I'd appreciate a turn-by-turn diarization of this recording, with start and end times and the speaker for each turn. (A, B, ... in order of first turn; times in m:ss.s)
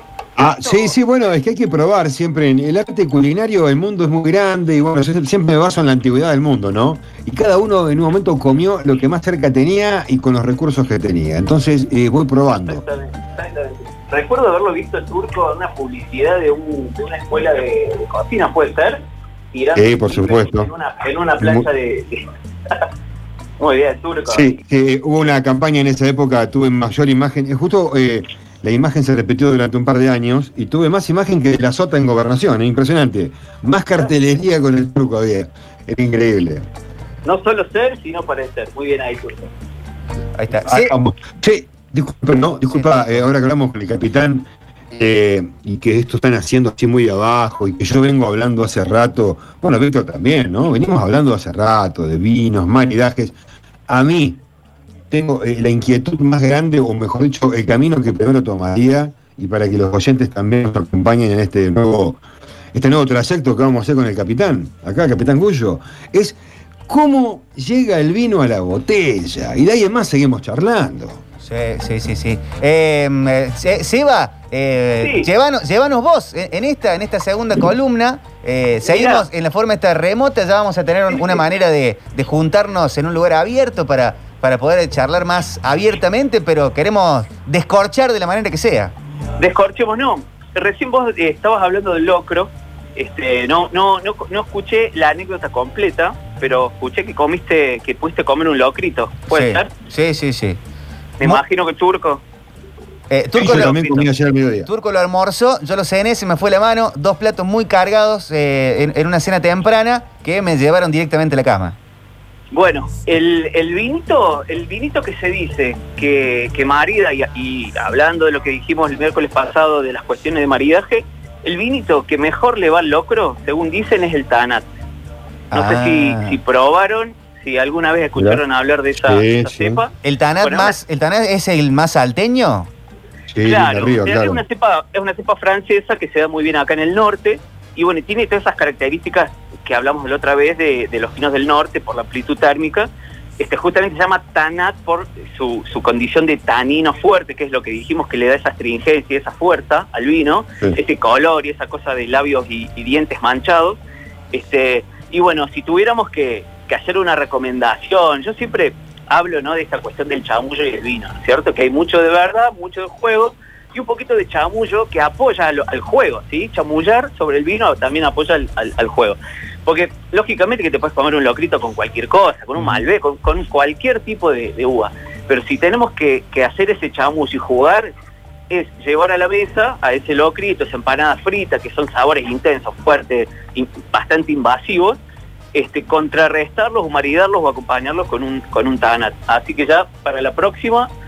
0:00.4-0:12.8 A
0:00.4-0:00.9 B
0:12.6-0:22.9 B
0:19.8-0:20.7 A
0:21.4-0:21.7 A
0:23.6-0:24.6 B
0:24.3-0:36.7 A
0:37.2-0:39.5 B
0:40.4-0:40.9 C
0:40.6-0:53.3 A
0:42.7-0:43.2 C
0:53.9-0:54.4 A
0:55.1-1:02.2 A
1:02.7-1:06.4 A
1:06.9-1:11.2 A
1:11.4-1:28.9 C
1:15.0-1:15.3 B
1:18.8-1:19.2 B
1:21.1-1:21.4 B
1:29.4-1:39.7 B
1:39.3-1:40.6 C
1:41.2-1:42.2 B
1:43.1-1:44.1 C
1:43.4-1:44.7 A
1:43.5-1:43.9 B
1:44.6-1:51.8 C
1:52.5-2:04.6 B
2:05.5-2:10.8 B
2:05.5-2:06.4 C
2:08.2-2:08.4 A
2:09.0-2:09.8 A
2:10.0-2:12.7 C
2:13.3-2:14.4 A
2:13.4-2:33.8 B
2:34.3-2:57.9 B
2:58.5-3:05.0 B
3:05.5-3:10.9 B